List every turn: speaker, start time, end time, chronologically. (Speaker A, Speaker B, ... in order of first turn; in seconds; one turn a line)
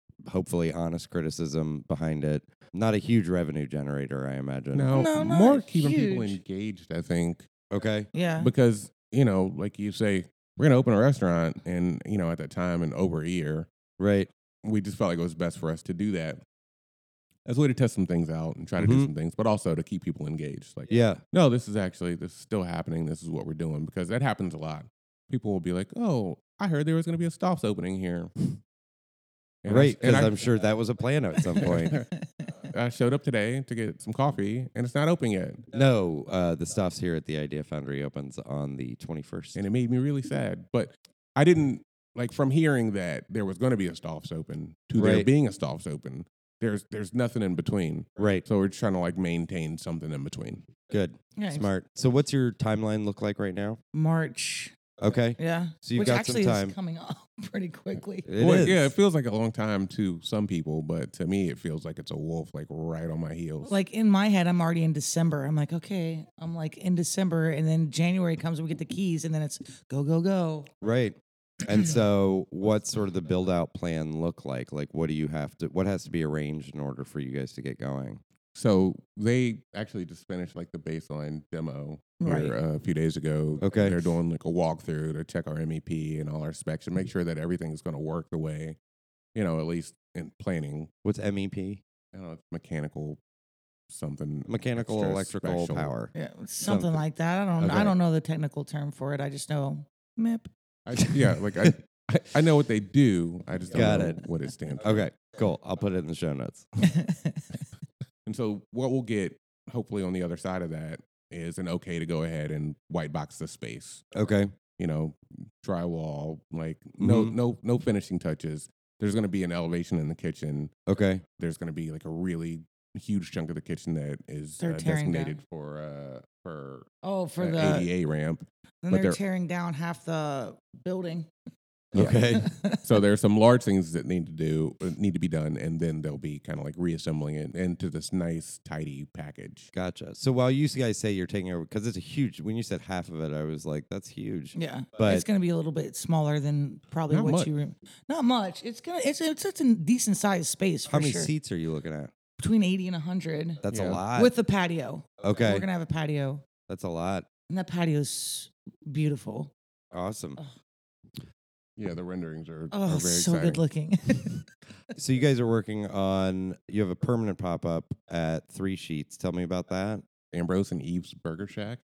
Speaker A: 0.2-5.0
Speaker B: 4.7-7.5
Speaker C: 4.9-6.4
Speaker A: 7.7-8.1
Speaker C: 8.1-8.5
Speaker B: 8.4-13.7
Speaker A: 14.0-14.3
Speaker B: 14.6-16.4
Speaker B: 17.4-28.6
Speaker A: 18.8-19.1
Speaker A: 20.9-21.2
Speaker B: 29.6-30.3
Speaker A: 29.6-32.0
Speaker B: 31.6-32.1
Speaker B: 32.7-35.6
Speaker A: 35.7-39.6
Speaker B: 39.5-50.7
Speaker A: 45.0-45.3
Speaker A: 48.2-48.4
Speaker A: 50.9-53.8
Speaker C: 51.4-51.7
Speaker C: 53.9-54.8
Speaker A: 55.0-56.7
Speaker C: 55.4-58.3
Speaker A: 58.2-58.9
Speaker B: 58.4-63.7
Speaker C: 63.6-70.7
Speaker A: 70.8-78.2
Speaker B: 78.5-88.8
Speaker C: 82.2-82.5
Speaker A: 83.6-84.0
Speaker B: 89.3-90.9
Speaker A: 91.0-91.8
Speaker B: 92.1-93.2
Speaker B: 93.9-95.9
Speaker A: 94.5-96.1
Speaker C: 96.1-100.5
Speaker A: 96.7-97.0
Speaker A: 97.6-97.9
Speaker B: 100.8-105.0
Speaker A: 103.7-104.2
Speaker A: 104.8-106.7
Speaker C: 106.8-107.4
Speaker B: 108.2-114.0
Speaker A: 114.1-114.5
Speaker B: 114.8-120.7
Speaker A: 117.0-117.3
Speaker A: 120.9-121.2
Speaker B: 121.4-126.9
Speaker C: 124.6-125.4
Speaker C: 127.0-127.9
Speaker B: 127.4-129.2
Speaker C: 128.8-131.3
Speaker A: 131.9-132.5
Speaker C: 132.1-132.8
Speaker B: 132.8-139.7
Speaker A: 139.7-145.2
Speaker C: 144.5-151.3
Speaker B: 147.1-147.5
Speaker A: 150.9-152.1
Speaker C: 152.4-156.4
Speaker A: 153.6-154.3
Speaker B: 153.7-154.0
Speaker A: 155.2-155.7
Speaker A: 156.7-157.3
Speaker C: 157.5-159.5
Speaker A: 159.9-160.4
Speaker B: 161.8-163.6
Speaker C: 162.7-164.4
Speaker A: 164.9-170.0
Speaker B: 170.3-171.8